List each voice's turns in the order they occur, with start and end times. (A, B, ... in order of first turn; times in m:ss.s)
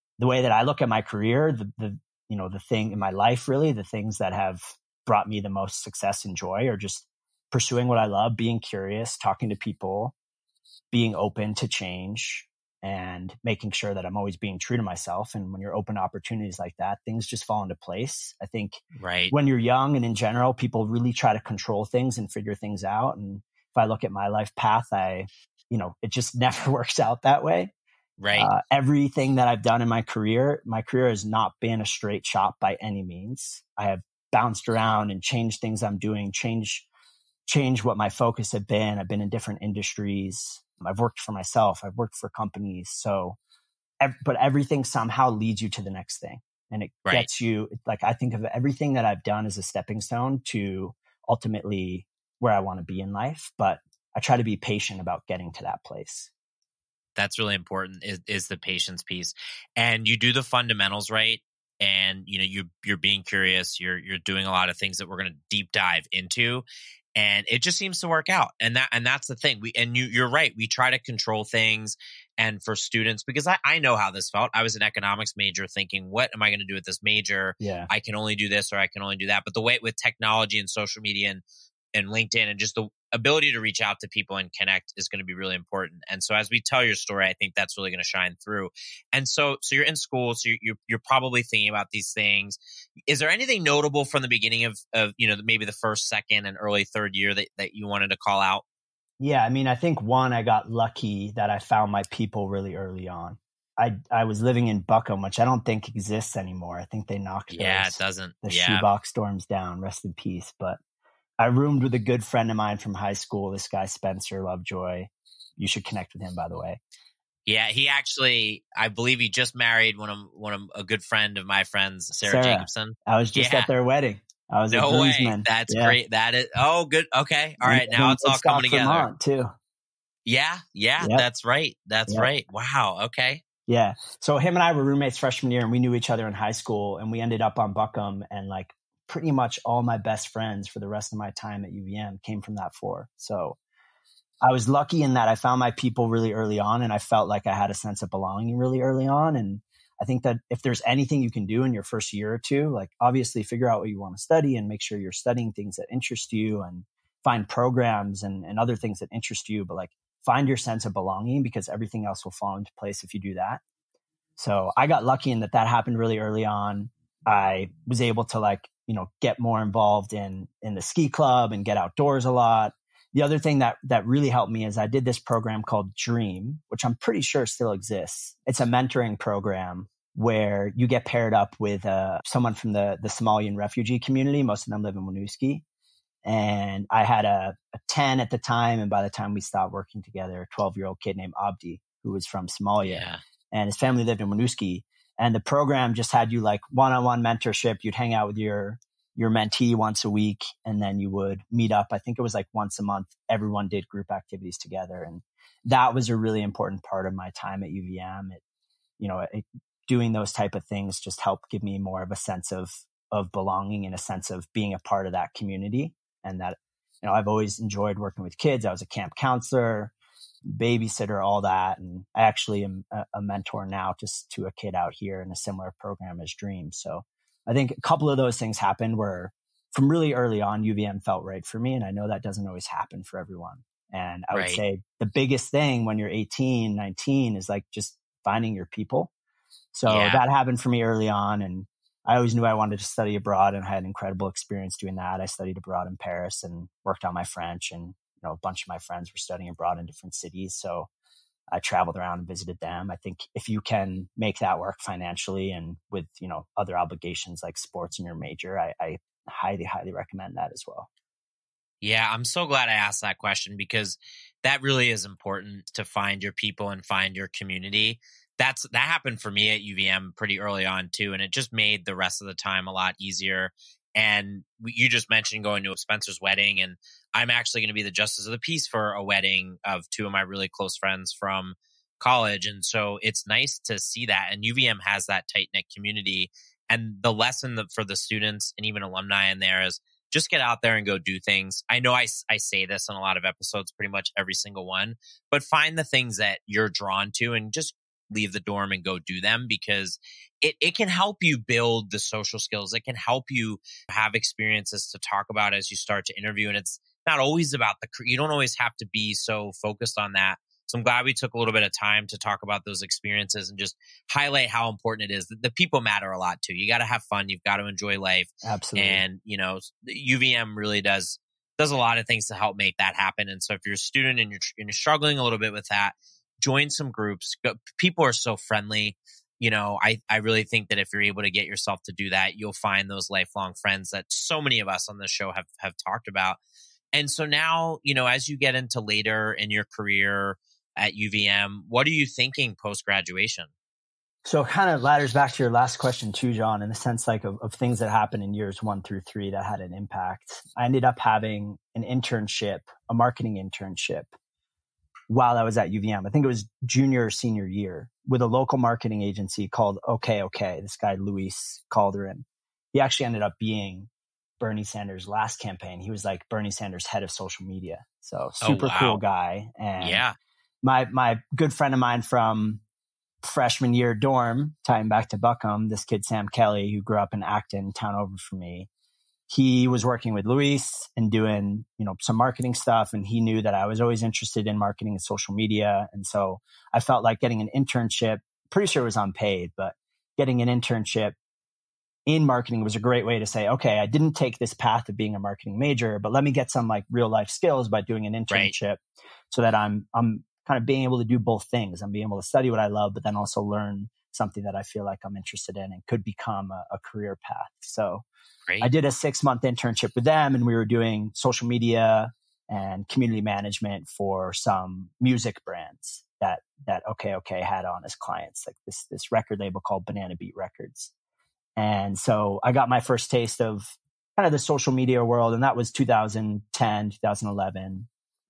0:00.2-0:10.1 A
0:10.9-0:27.7 A
0:19.0-0:19.3 B
0:28.2-0:28.5 B
0:28.3-0:36.9 A
0:37.4-0:43.4 A
0:44.0-0:56.3 A
0:57.2-1:21.4 B
1:17.6-1:17.9 A
1:21.9-1:32.6 B
1:33.1-1:38.6 B
1:39.2-1:50.8 A
1:47.5-1:48.9 B
1:51.4-1:56.8 A
1:57.4-2:03.7 B
2:02.2-2:06.0 A
2:04.7-2:09.1 B
2:07.6-2:09.5 A
2:10.2-2:13.4 B
2:11.0-2:11.2 A
2:13.7-2:23.6 A
2:24.4-2:43.6 A
2:44.4-3:05.6 A
3:06.2-3:28.4 A
3:12.8-3:13.2 B
3:29.0-3:39.9 A
3:40.5-3:59.1 A
3:54.3-3:54.6 B
3:59.7-4:10.9 A
3:59.9-4:00.2 B
4:11.5-4:20.9 A
4:21.8-5:36.4 B
5:18.4-5:19.0 A
5:36.9-5:43.5 B
5:44.2-5:54.1 A
5:55.1-6:03.9 A
6:04.4-6:10.0 A
6:08.4-6:09.0 B
6:09.8-6:10.1 B
6:10.6-6:12.6 A
6:13.2-6:18.7 A
6:19.3-6:31.2 A
6:32.1-6:48.0 A
6:48.6-7:00.9 A
7:01.6-7:07.9 A